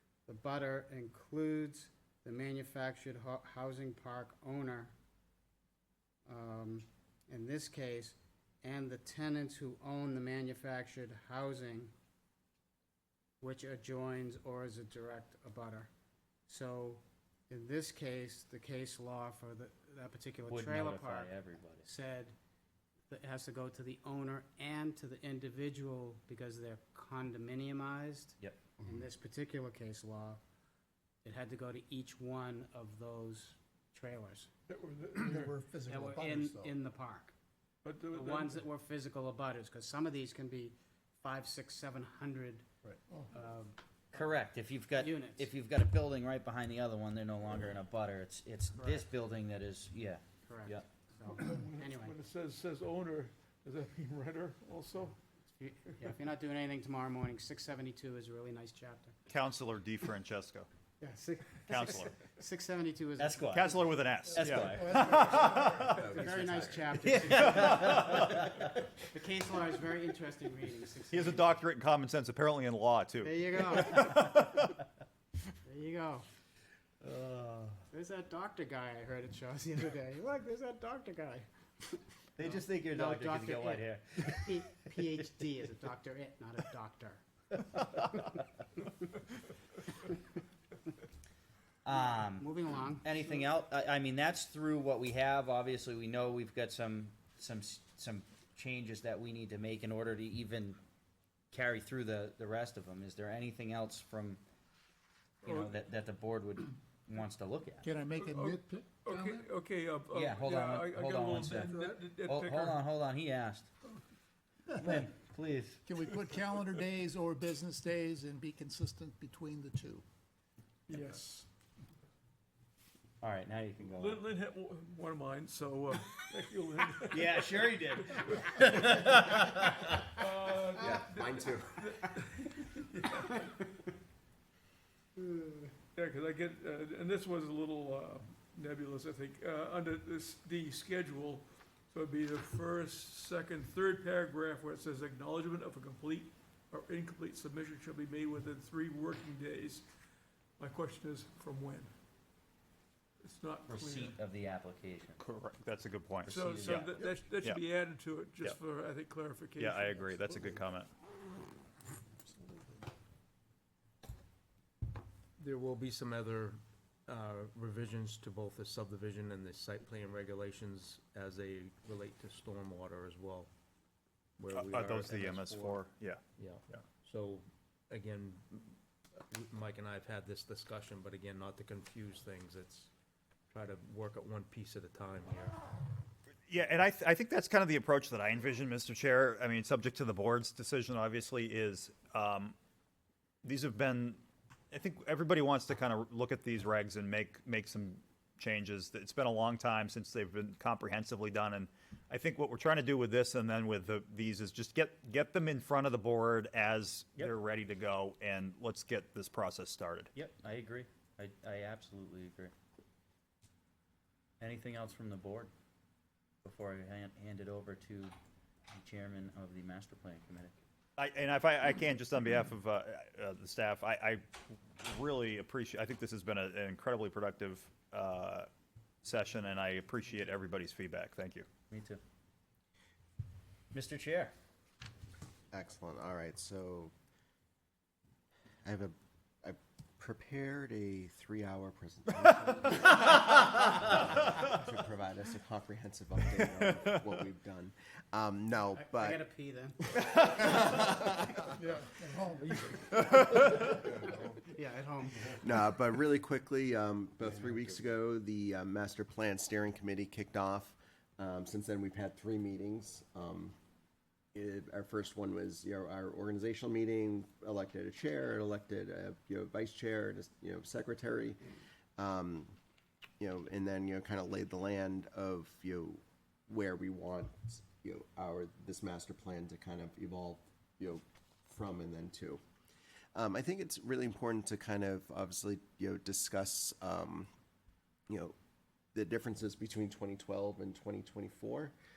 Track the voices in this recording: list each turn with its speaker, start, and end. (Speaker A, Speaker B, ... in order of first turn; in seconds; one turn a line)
Speaker A: 0.3-4.9
Speaker A: 6.3-11.9
Speaker A: 13.4-15.9
Speaker A: 16.5-21.3
Speaker B: 20.5-21.9
Speaker A: 21.8-22.3
Speaker A: 23.1-30.4
Speaker A: 31.2-34.5
Speaker C: 34.7-35.5
Speaker D: 35.5-36.7
Speaker A: 35.9-37.3
Speaker C: 37.8-38.6
Speaker A: 38.1-42.6
Speaker A: 43.3-43.8
Speaker B: 44.1-50.8
Speaker A: 45.0-45.5
Speaker A: 48.8-49.0
Speaker A: 50.5-52.2
Speaker C: 51.3-55.2
Speaker A: 55.4-59.1
Speaker E: 59.3-60.7
Speaker A: 61.0-63.9
Speaker E: 61.7-62.1
Speaker B: 63.2-63.7
Speaker E: 63.5-66.1
Speaker B: 64.3-65.1
Speaker D: 65.1-65.8
Speaker A: 65.8-68.1
Speaker F: 65.9-67.0
Speaker B: 67.1-68.7
Speaker E: 67.6-68.4
Speaker A: 69.1-71.6
Speaker E: 71.1-74.6
Speaker A: 73.2-74.3
Speaker A: 75.6-76.2
Speaker B: 77.0-77.8
Speaker A: 77.9-89.2
Speaker B: 82.4-84.5
Speaker A: 89.9-90.2
Speaker B: 91.8-92.5
Speaker A: 92.2-93.1
Speaker B: 93.0-100.8
Speaker B: 101.5-104.4
Speaker B: 105.4-107.9
Speaker C: 105.4-105.7
Speaker D: 107.8-109.5
Speaker C: 108.2-112.8
Speaker B: 110.1-113.7
Speaker B: 114.7-115.8
Speaker D: 115.8-120.0
Speaker C: 120.9-121.5
Speaker B: 123.2-124.2
Speaker C: 123.8-128.9
Speaker B: 127.1-130.1
Speaker C: 130.1-133.8
Speaker F: 130.8-131.9
Speaker A: 135.2-135.7
Speaker C: 135.9-149.9
Speaker C: 150.6-151.9
Speaker C: 153.2-154.2
Speaker B: 153.7-155.2
Speaker E: 155.2-157.6
Speaker B: 156.2-156.9
Speaker C: 156.3-160.4
Speaker E: 159.6-160.9
Speaker G: 165.4-173.5
Speaker G: 174.4-182.9
Speaker E: 174.5-176.8
Speaker G: 183.5-185.6
Speaker E: 186.5-192.5
Speaker E: 193.4-194.2
Speaker E: 194.7-210.1
Speaker B: 210.1-212.5
Speaker B: 214.4-215.5
Speaker B: 216.4-218.1
Speaker B: 218.7-220.6
Speaker E: 221.0-228.5
Speaker E: 229.0-231.4
Speaker B: 231.7-232.0
Speaker B: 233.7-234.3
Speaker F: 235.5-236.9
Speaker F: 238.6-243.2
Speaker F: 243.9-249.2
Speaker A: 248.8-249.8
Speaker F: 249.8-251.4
Speaker D: 251.6-252.4
Speaker A: 254.4-255.4
Speaker F: 255.2-263.5
Speaker F: 264.3-271.4
Speaker F: 272.0-272.5
Speaker F: 273.2-282.4
Speaker F: 283.1-287.3
Speaker F: 288.1-288.3
Speaker F: 288.9-291.7